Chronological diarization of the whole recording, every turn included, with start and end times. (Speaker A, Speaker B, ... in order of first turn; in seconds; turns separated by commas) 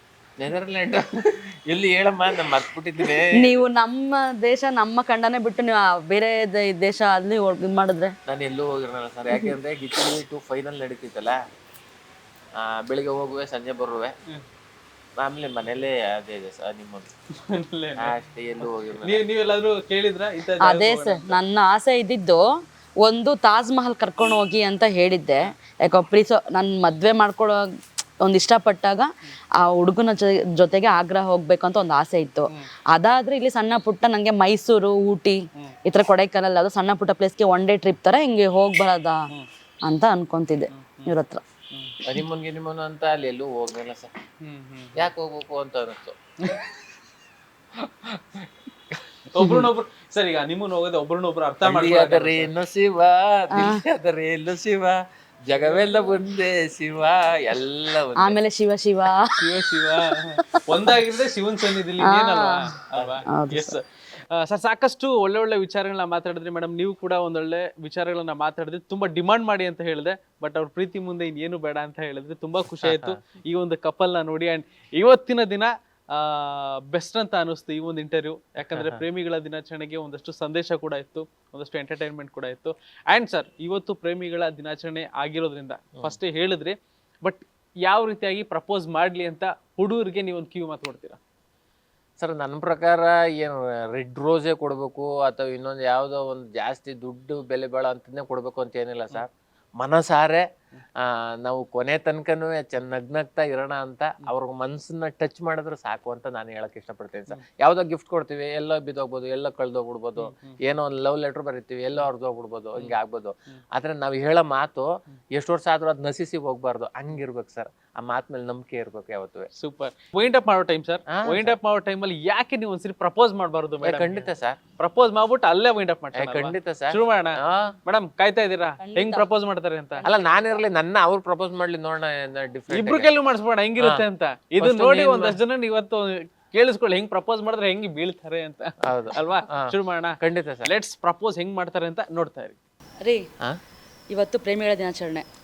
Speaker A: 0.4-3.6, Speaker B: 3.3-8.1, Speaker A: 8.3-11.4, Speaker A: 12.6-14.1, Speaker A: 15.2-17.1, Speaker C: 17.4-18.1, Speaker A: 18.0-19.2, Speaker C: 19.0-21.4, Speaker B: 20.6-22.4, Speaker B: 23.0-27.6, Speaker B: 28.2-39.2, Speaker B: 39.8-41.4, Speaker C: 40.7-41.1, Speaker C: 41.7-41.9, Speaker A: 42.0-44.1, Speaker C: 44.4-45.1, Speaker A: 45.0-46.1, Speaker C: 46.4-46.6, Speaker A: 47.8-48.5, Speaker C: 49.3-52.5, Speaker B: 49.4-49.6, Speaker A: 51.6-58.3, Speaker B: 53.5-53.8, Speaker C: 55.5-56.1, Speaker B: 58.1-59.3, Speaker C: 59.4-91.2, Speaker B: 60.5-60.9, Speaker B: 62.0-62.6, Speaker A: 62.9-63.2, Speaker B: 63.3-63.8, Speaker A: 72.8-73.2, Speaker A: 78.7-79.0, Speaker A: 92.2-99.3, Speaker A: 99.8-100.4, Speaker A: 101.0-119.5, Speaker C: 110.2-110.6, Speaker C: 119.5-124.3, Speaker A: 121.1-121.5, Speaker A: 123.8-124.6, Speaker C: 124.8-130.0, Speaker A: 126.2-127.7, Speaker B: 128.8-129.3, Speaker B: 130.0-130.6, Speaker A: 130.0-133.1, Speaker C: 132.7-142.6, Speaker A: 134.6-135.4, Speaker A: 138.8-140.7, Speaker B: 143.0-143.3, Speaker B: 144.1-145.2